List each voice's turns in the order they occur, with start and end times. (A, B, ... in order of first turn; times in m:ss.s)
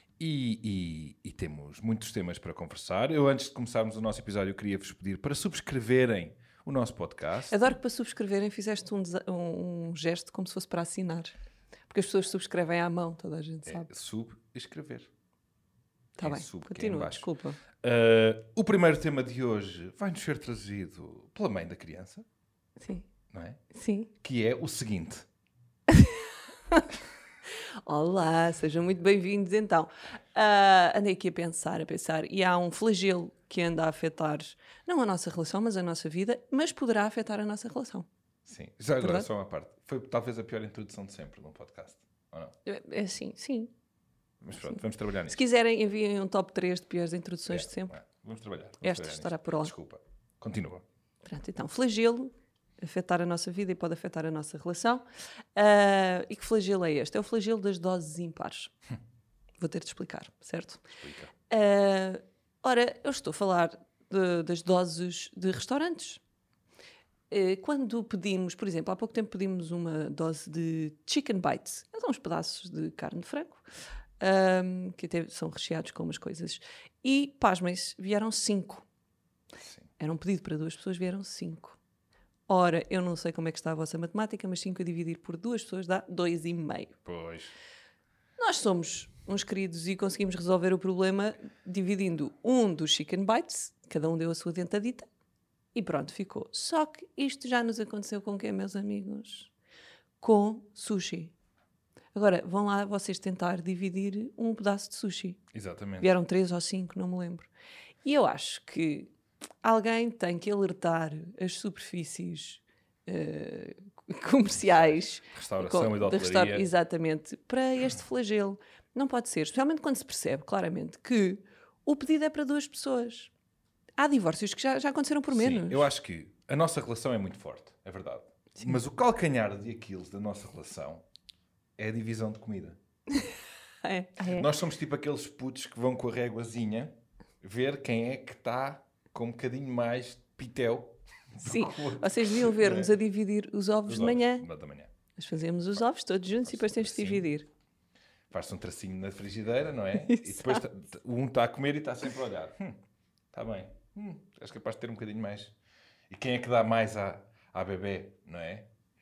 0:00.2-0:07.7 A
0:07.5-0:11.3 B
0:11.9-0:13.9 B
0:13.7-0:15.1 A
0:16.2-0:17.6 B
0:16.2-0:17.3 A
0:17.8-0:22.3 A
0:22.8-0:23.0 B
0:23.3-0:23.6 A
0:23.7-0:24.1 B
0:24.2-0:25.3 A
0:25.9-0:26.9 B
0:27.8-0:38.1 B
0:38.4-0:42.6 A
0:39.0-0:39.3 B
0:42.6-0:43.7 B
0:44.4-0:45.4 A
0:44.6-0:47.9 B
0:47.5-0:50.8 A
0:48.8-0:49.7 B
0:51.2-0:58.7 B
0:59.6-1:00.8 B
1:01.0-1:01.3 A
1:01.5-1:06.2 B
1:07.3-1:13.6 B
1:14.2-1:18.8 B
1:19.6-1:19.9 A
1:20.0-1:21.8 B
1:22.5-1:26.9 B
1:27.0-1:27.6 A
1:28.4-1:35.1 B
1:35.7-1:39.5 B
1:40.2-1:41.3 B
1:42.1-1:45.4 B
1:45.5-1:46.1 A
1:46.0-1:47.5 B
1:48.0-1:49.1 B
1:49.6-2:03.3 B
1:54.6-1:56.7 A
2:04.0-2:05.9 B
2:05.3-2:11.0 A
2:11.8-2:12.8 A
2:13.8-2:14.5 B
2:14.2-2:23.0 A
2:21.4-2:24.4 B
2:23.9-2:24.9 A
2:25.2-2:27.4 B
2:26.4-2:27.3 A
2:28.3-2:32.8 A
2:30.0-2:30.6 B
2:33.3-2:35.6 A
2:36.1-2:38.7 A